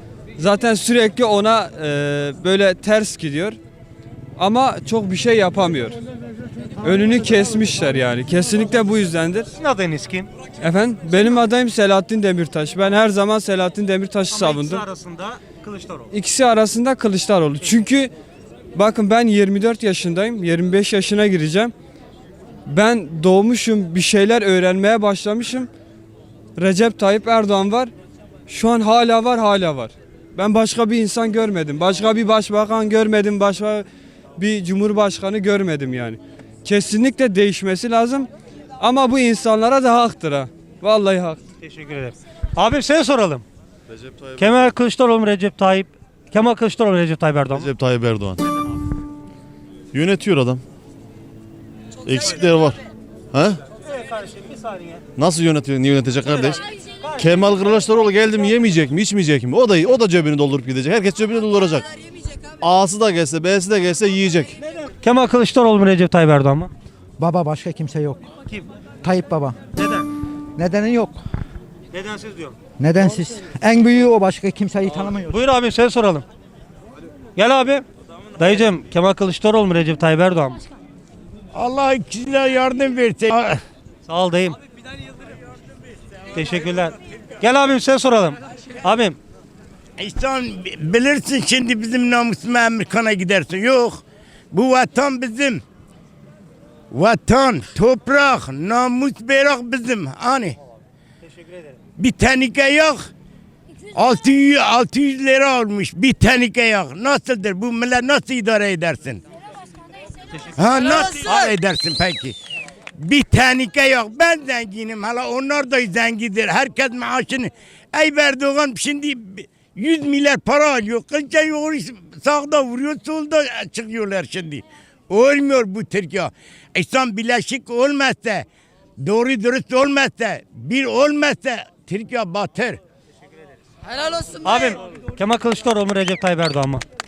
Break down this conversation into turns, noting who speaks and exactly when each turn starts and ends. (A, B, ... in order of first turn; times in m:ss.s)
0:00.4-0:03.6 A
0:04.4-0:06.0 A
0:06.8-0:09.5 A
0:09.5-0:10.3 B
0:10.6-0:14.8 A
0:14.3-0:16.1 B
0:16.1-0:18.1 A
0:18.8-0:21.7 A
0:22.7-0:25.7 A
0:26.6-0:27.9 A
0:28.5-0:33.8 A
0:34.4-0:38.3 A
0:38.8-0:41.4 A
0:41.6-0:43.4 B
0:44.0-0:44.6 C
0:44.4-0:47.7 B
0:47.6-0:48.4 C
0:49.9-0:50.6 C
0:52.0-0:52.8 C
0:53.3-0:53.6 C
0:53.8-0:55.0 B
0:55.2-0:56.6 C
0:56.3-0:57.2 B
0:57.2-1:01.9 C
1:02.6-1:04.6 C
1:04.6-1:06.7 B
1:07.2-1:08.2 D
1:09.0-1:09.6 D
1:09.8-1:10.1 B
1:10.6-1:11.2 D
1:11.9-1:12.6 B
1:12.8-1:15.4 D
1:15.2-1:16.2 B
1:17.4-1:17.8 B
1:18.4-1:20.6 B
1:21.5-1:23.6 E
1:24.1-1:24.6 B
1:26.3-1:29.2 B
1:30.0-1:35.6 E
1:36.9-1:40.6 E
1:41.3-1:41.6 B
1:42.0-1:43.0 E
1:44.0-1:49.2 E
1:50.5-1:52.4 E
1:51.2-1:51.5 B
1:53.0-2:08.4 E
2:09.0-2:12.8 E
2:14.4-2:16.8 B